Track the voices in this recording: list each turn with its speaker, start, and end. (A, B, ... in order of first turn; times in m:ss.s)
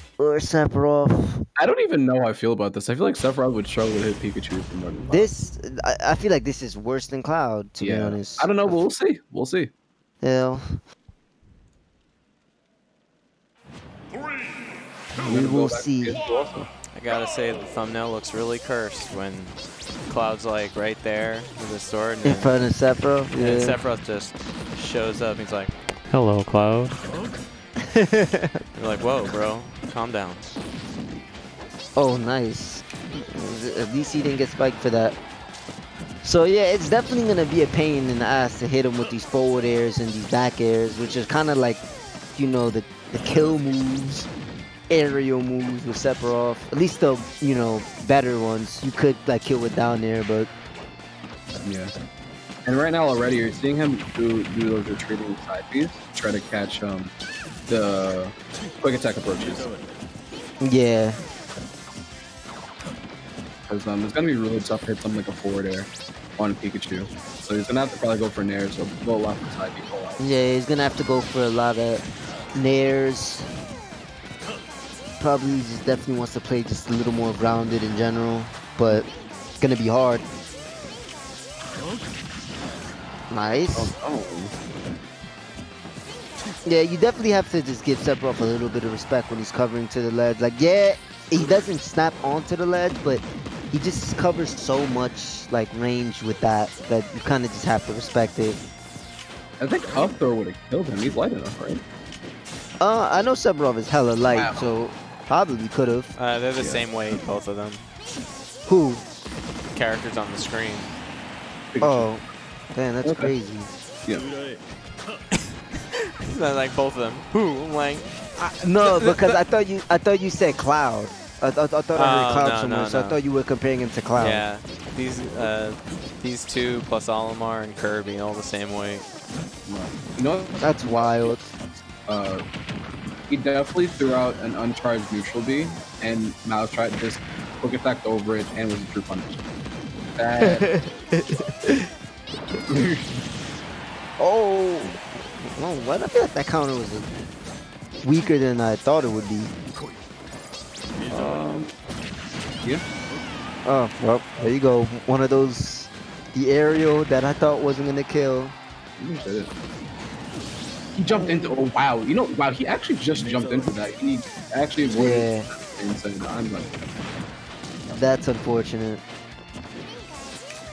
0:00.2-0:01.4 A
0:01.6-0:05.3 B
0:05.1-0:08.8 A
0:07.8-0:09.7 B
0:10.2-0:10.8 A
0:15.2-0:16.2 A
0:15.2-0:16.7 B
0:16.9-0:19.6 C
0:20.1-0:22.7 C
0:22.2-0:23.8 A
0:23.4-0:27.0 C
0:27.8-0:28.5 A
0:28.8-0:30.5 C
0:32.0-0:35.2 A
0:36.2-0:41.8 A
0:42.4-0:44.3 A
0:44.9-0:50.5 A
0:51.6-0:51.9 B
0:52.6-0:57.1 B
0:57.7-0:59.7 B
1:00.6-1:01.2 A
1:03.7-1:10.2 B
1:10.2-1:13.5 A
1:15.2-1:19.1 A
1:19.6-1:20.2 A
1:23.3-1:23.9 A
1:23.8-1:24.5 B
1:26.6-1:38.6 A
1:39.6-1:41.8 B
1:42.8-1:46.1 A
1:44.3-1:44.6 B
1:46.2-1:47.9 C
1:46.6-1:47.2 B
1:48.7-1:49.0 A
1:49.6-1:50.9 C
1:51.7-1:52.2 B
1:51.8-1:53.7 A
1:53.0-1:53.3 B
1:55.9-1:59.4 C
1:58.6-2:04.4 A
2:02.0-2:03.2 C
2:04.2-2:09.0 C
2:09.7-2:12.4 B
2:10.6-2:11.5 A
2:13.3-2:19.4 B
2:20.2-2:21.0 B
2:20.4-2:21.9 A
2:22.7-2:23.2 B
2:24.2-2:27.1 A
2:28.0-2:29.5 A
2:31.1-2:31.7 B
2:33.6-2:38.6 A
2:39.0-2:39.5 B
2:41.0-2:46.9 B
2:41.1-2:41.6 A
2:44.9-2:45.5 A
2:47.9-2:48.1 B
2:47.9-2:49.0 A